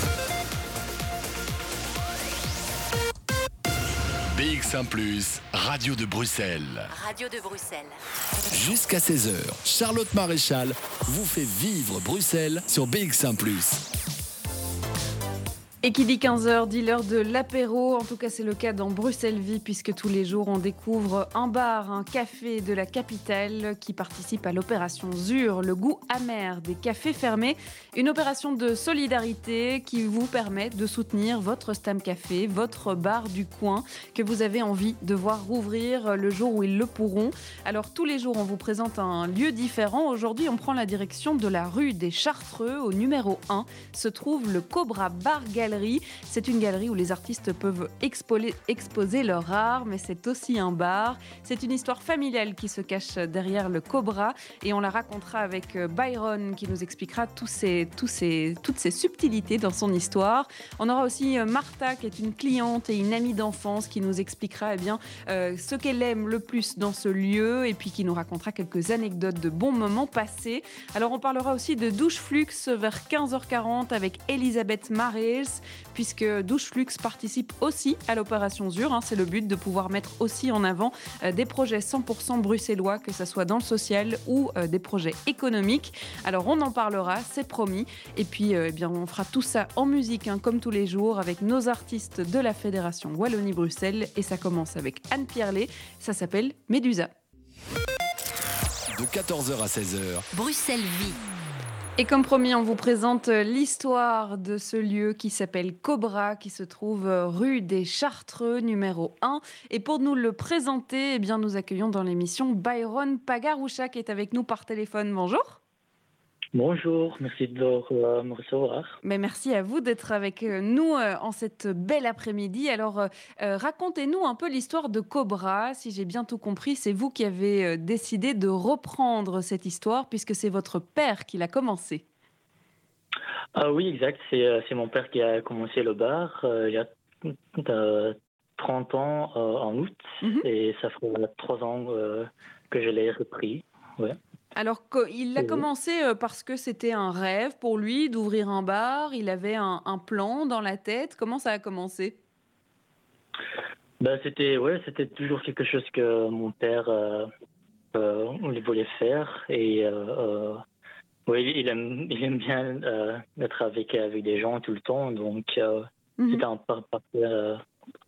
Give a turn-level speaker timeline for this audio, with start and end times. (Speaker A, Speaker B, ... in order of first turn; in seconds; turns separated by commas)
Speaker A: 4.3-6.9, Speaker B: 6.9-7.9, Speaker A: 8.5-13.8, Speaker C: 15.8-97.1, Speaker A: 98.9-100.3, Speaker B: 100.3-101.2, Speaker C: 102.0-115.6, Speaker D: 116.5-119.0, Speaker C: 119.0-132.0, Speaker D: 133.6-144.2, Speaker C: 144.6-152.2, Speaker D: 145.4-145.6, Speaker D: 154.0-157.3, Speaker D: 157.9-160.6, Speaker D: 161.3-167.6, Speaker C: 166.2-166.5